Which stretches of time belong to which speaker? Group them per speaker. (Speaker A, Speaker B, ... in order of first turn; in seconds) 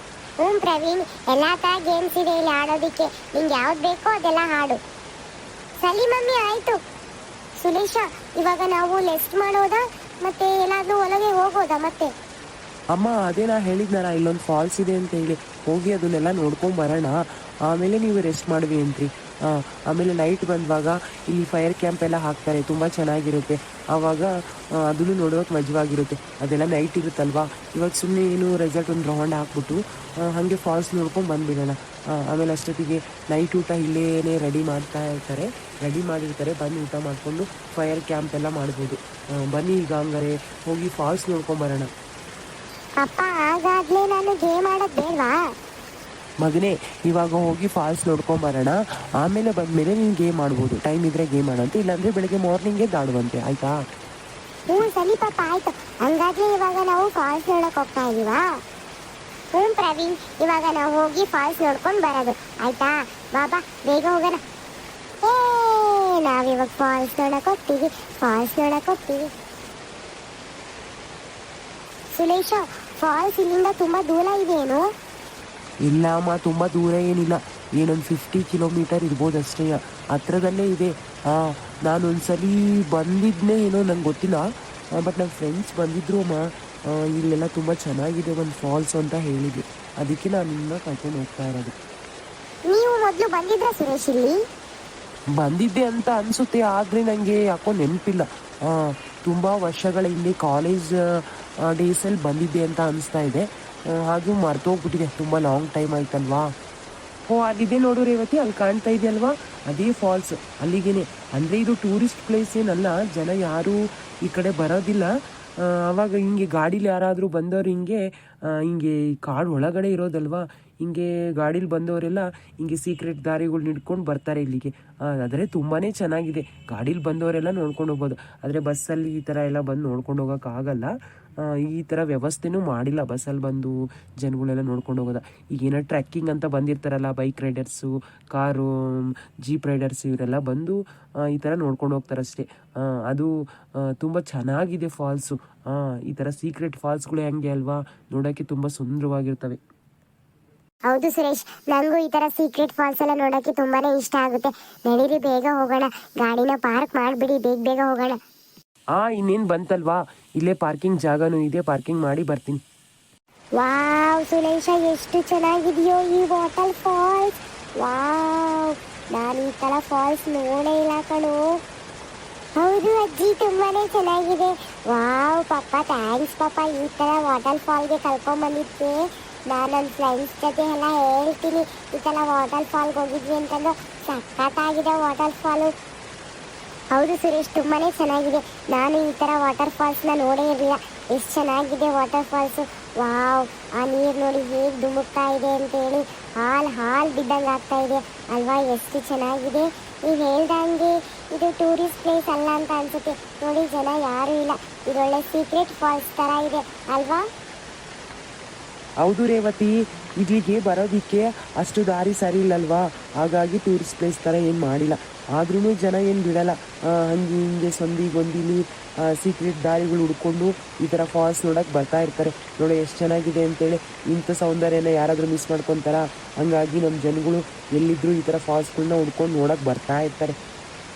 Speaker A: 0.4-4.8, 5.8-6.8, 7.6-12.1, 43.0-45.4, 54.7-58.5, 59.5-64.4, 65.2-69.3, 72.2-74.8, 92.7-94.4, 150.9-158.2, 163.6-171.4, 172.6-179.0, 179.5-185.7, 186.9-207.2
Speaker B: 12.9-41.9, 46.4-53.8, 75.8-84.4, 85.0-91.7, 95.3-100.9, 101.7-106.5, 107.3-115.1, 115.6-143.3, 143.8-149.6, 158.9-162.6, 209.0-230.3